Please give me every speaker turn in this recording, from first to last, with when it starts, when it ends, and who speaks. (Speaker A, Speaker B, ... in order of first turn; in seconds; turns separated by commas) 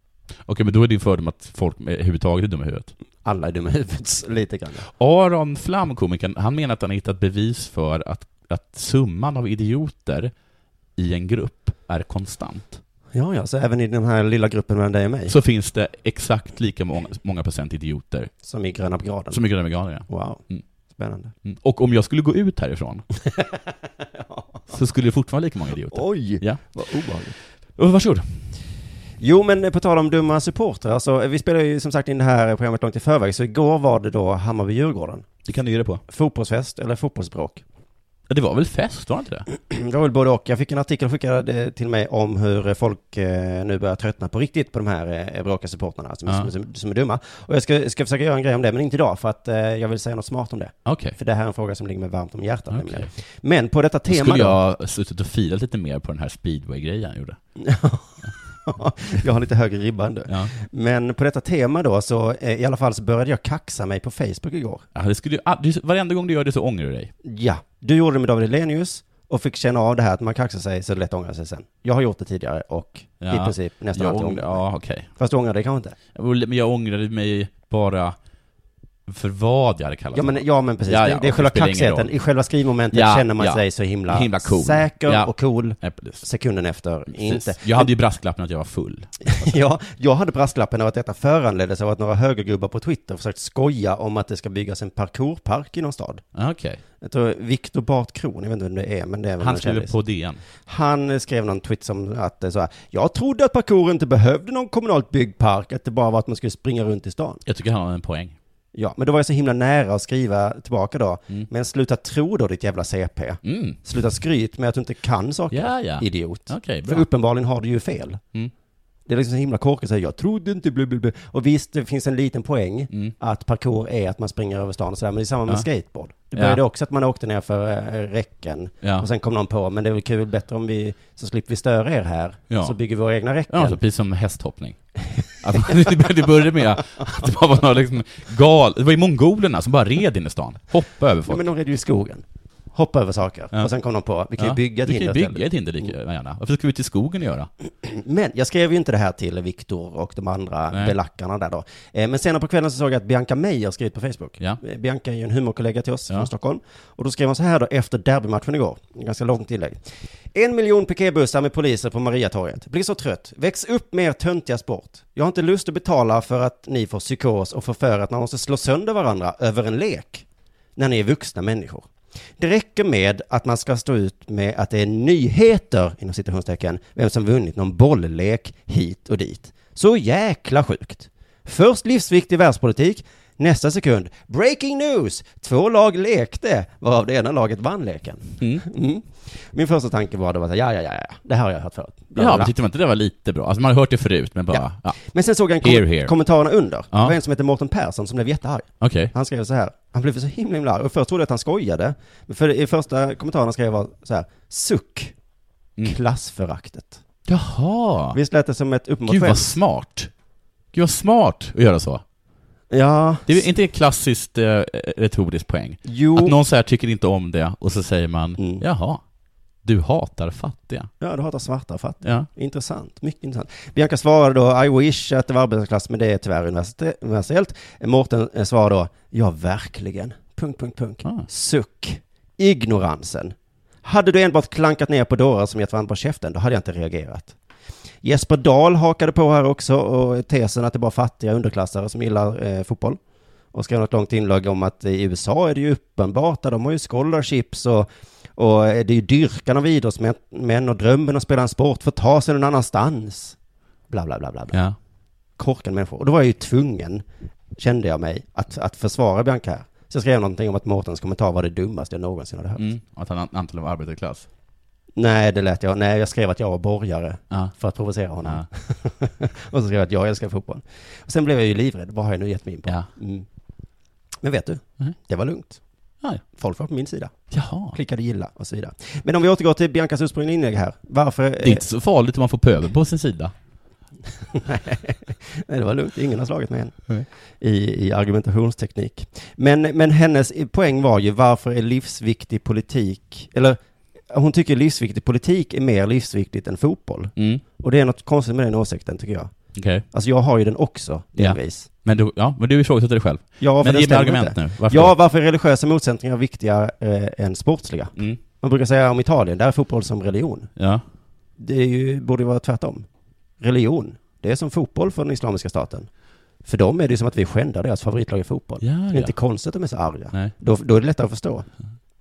Speaker A: 0.5-2.9, Speaker B: 3.2-4.9, Speaker A: 4.9-10.3, Speaker A: 11.0-12.8, Speaker B: 13.1-15.3, Speaker A: 15.3-18.3, Speaker B: 18.4-19.4, Speaker A: 19.3-20.6, Speaker B: 20.0-20.4, Speaker B: 20.9-21.3, Speaker A: 21.4-23.1, Speaker B: 24.2-24.6, Speaker A: 24.7-26.6, Speaker B: 25.9-27.4, Speaker A: 27.8-28.5, Speaker B: 29.2-35.3, Speaker A: 35.5-36.0, Speaker B: 36.1-37.6, Speaker A: 38.3-39.5, Speaker B: 39.5-54.6, Speaker A: 50.9-51.2, Speaker A: 52.7-53.1, Speaker A: 54.1-57.4, Speaker B: 57.6-64.8, Speaker A: 60.3-60.5, Speaker A: 65.0-67.1, Speaker B: 67.2-74.6, Speaker A: 73.2-75.1, Speaker B: 75.2-76.0, Speaker A: 76.2-78.2, Speaker A: 79.1-82.1, Speaker B: 80.1-87.9, Speaker A: 82.9-86.2, Speaker A: 87.1-89.5, Speaker B: 89.2-96.2, Speaker A: 96.3-96.8, Speaker B: 97.0-100.0, Speaker A: 99.4-100.4, Speaker B: 100.7-107.4, Speaker A: 107.5-108.4, Speaker B: 108.7-118.2, Speaker A: 113.4-113.8, Speaker A: 115.5-117.1, Speaker B: 119.1-133.8, Speaker A: 126.3-126.6, Speaker A: 128.8-129.1, Speaker A: 132.5-132.8, Speaker A: 133.5-134.8, Speaker A: 135.4-141.5, Speaker B: 141.3-145.4, Speaker A: 144.4-147.5, Speaker B: 147.8-159.8, Speaker B: 160.3-170.2, Speaker B: 170.8-171.9, Speaker B: 172.4-192.5, Speaker A: 188.4-188.7, Speaker A: 192.2-195.0, Speaker B: 194.5-205.1, Speaker A: 195.6-196.1, Speaker A: 198.8-199.1, Speaker B: 205.8-207.0, Speaker A: 207.3-208.2, Speaker B: 208.1-209.6, Speaker A: 209.1-210.1, Speaker A: 210.7-212.0, Speaker B: 212.7-213.5, Speaker A: 213.3-219.0, Speaker B: 215.8-216.4, Speaker B: 218.4-218.6, Speaker A: 219.6-220.9, Speaker B: 221.0-237.3, Speaker A: 222.0-222.3, Speaker B: 238.0-243.0, Speaker B: 243.5-253.4, Speaker B: 253.9-254.6, Speaker A: 254.5-254.8, Speaker B: 255.4-257.0, Speaker B: 257.6-262.7, Speaker A: 262.6-264.3, Speaker B: 265.0-273.3, Speaker B: 274.2-275.6, Speaker B: 276.3-277.1, Speaker A: 277.3-277.8, Speaker B: 277.7-281.6, Speaker A: 281.4-283.3, Speaker B: 284.3-286.9, Speaker B: 287.4-293.6, Speaker B: 294.1-299.3, Speaker A: 297.2-297.4, Speaker A: 299.6-299.9, Speaker B: 299.9-301.7, Speaker A: 301.2-304.9, Speaker B: 303.4-310.5, Speaker A: 310.6-310.8, Speaker B: 311.4-312.9, Speaker B: 313.4-315.9, Speaker B: 316.4-321.5, Speaker A: 318.6-319.1